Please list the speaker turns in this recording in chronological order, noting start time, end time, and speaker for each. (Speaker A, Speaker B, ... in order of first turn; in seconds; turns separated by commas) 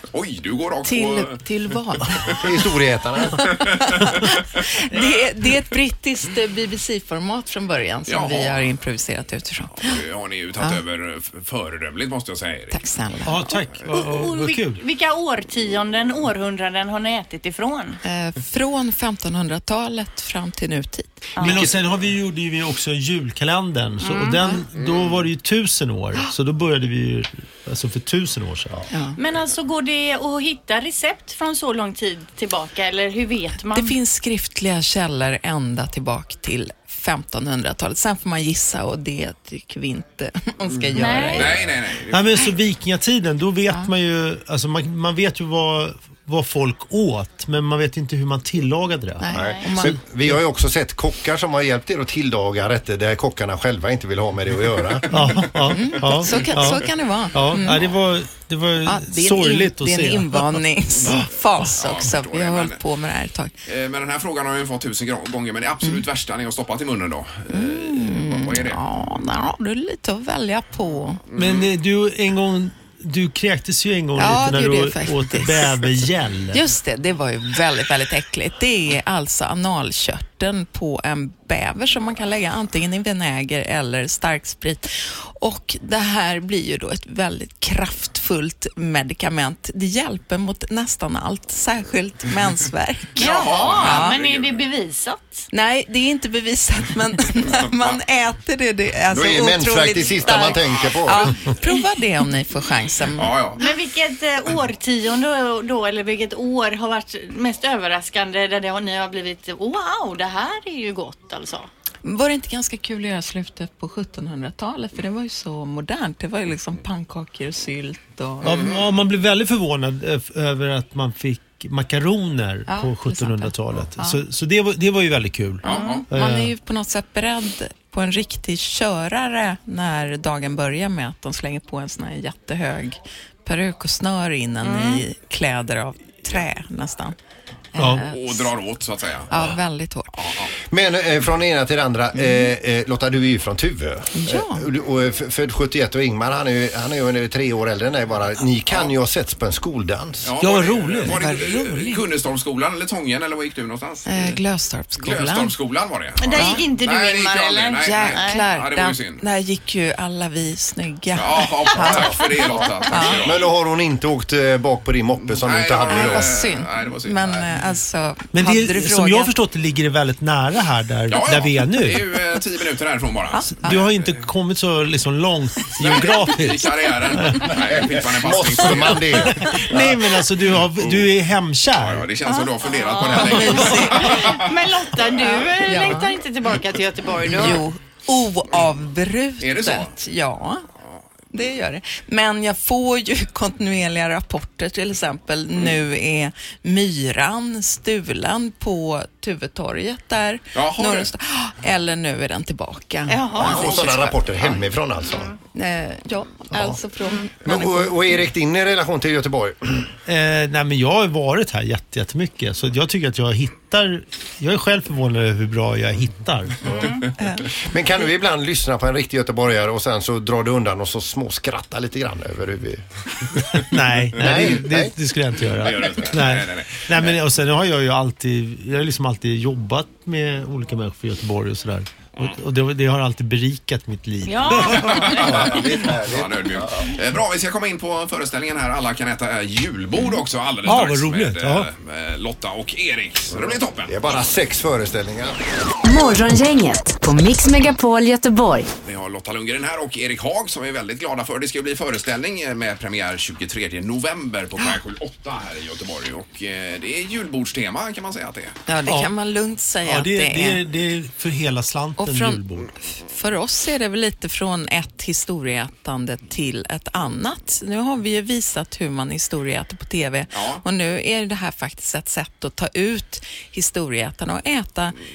Speaker A: 0.1-1.4, Speaker B: 0.8-2.5, Speaker C: 2.4-3.4, Speaker B: 3.4-10.0, Speaker A: 3.5-4.4, Speaker A: 4.9-5.2, Speaker A: 8.1-8.7, Speaker A: 9.8-12.8, Speaker B: 12.7-13.5, Speaker D: 13.2-14.8, Speaker E: 13.9-18.0, Speaker B: 18.0-21.7, Speaker E: 21.4-21.6, Speaker D: 21.4-28.8, Speaker E: 24.0-24.4, Speaker A: 24.7-25.2, Speaker B: 28.9-29.2, Speaker E: 29.2-33.9, Speaker B: 33.7-41.6, Speaker E: 40.9-41.4, Speaker A: 41.3-42.5, Speaker D: 42.1-49.2, Speaker B: 49.2-50.0, Speaker C: 49.3-55.0, Speaker E: 49.3-49.6, Speaker A: 55.1-56.5, Speaker D: 55.1-56.6, Speaker B: 55.7-57.9, Speaker D: 57.3-60.3, Speaker B: 58.8-63.5, Speaker A: 61.1-62.8, Speaker A: 63.6-68.8, Speaker B: 67.5-71.2, Speaker A: 71.3-71.7, Speaker D: 71.4-76.5, Speaker B: 74.2-94.2, Speaker E: 93.2-95.5, Speaker A: 93.2-94.6, Speaker B: 95.5-103.3, Speaker C: 99.1-101.3, Speaker A: 100.2-101.4, Speaker A: 103.1-103.6, Speaker E: 103.6-111.7, Speaker B: 112.0-118.7, Speaker A: 118.4-118.9, Speaker D: 118.5-125.6, Speaker B: 122.7-124.2, Speaker A: 125.6-126.0, Speaker E: 125.6-125.9, Speaker B: 125.6-137.1, Speaker E: 134.6-135.0, Speaker B: 137.7-138.5, Speaker A: 138.0-139.6, Speaker B: 139.3-140.1, Speaker A: 140.2-140.5, Speaker C: 140.7-150.3, Speaker B: 142.1-142.5, Speaker B: 144.1-144.6, Speaker A: 150.2-154.4, Speaker D: 150.4-151.2, Speaker B: 151.0-152.1, Speaker B: 154.1-155.5, Speaker A: 155.0-159.2, Speaker E: 156.2-158.4, Speaker B: 156.3-156.7, Speaker B: 157.8-162.3, Speaker A: 161.1-163.5, Speaker C: 161.8-162.1, Speaker B: 162.9-163.2, Speaker C: 163.2-166.3, Speaker A: 165.2-167.5, Speaker B: 165.8-169.3, Speaker D: 168.3-172.0, Speaker A: 171.1-174.1, Speaker B: 173.3-173.9, Speaker D: 173.7-176.6, Speaker A: 175.8-179.7, Speaker C: 177.7-179.9, Speaker D: 179.7-182.0, Speaker A: 180.6-181.2, Speaker A: 181.7-184.5, Speaker E: 182.6-187.6, Speaker B: 183.0-184.4, Speaker B: 185.2-186.1, Speaker B: 187.2-190.6, Speaker A: 189.4-189.9, Speaker B: 191.3-204.7, Speaker A: 200.5-201.1, Speaker E: 203.1-203.7, Speaker C: 203.4-205.3, Speaker B: 205.5-208.2, Speaker C: 207.4-209.9, Speaker D: 210.1-216.6, Speaker E: 216.7-217.0, Speaker B: 217.2-217.5, Speaker C: 217.7-222.8, Speaker D: 223.7-234.5, Speaker C: 224.2-224.9, Speaker A: 224.2-224.5, Speaker A: 225.5-227.2, Speaker E: 234.2-235.5, Speaker A: 234.5-244.0, Speaker C: 235.2-236.9, Speaker D: 240.7-241.7, Speaker C: 243.8-245.3, Speaker F: 245.8-248.7, Speaker A: 248.8-258.5, Speaker B: 258.7-260.6, Speaker D: 259.9-262.7, Speaker B: 262.0-274.9, Speaker A: 270.3-270.6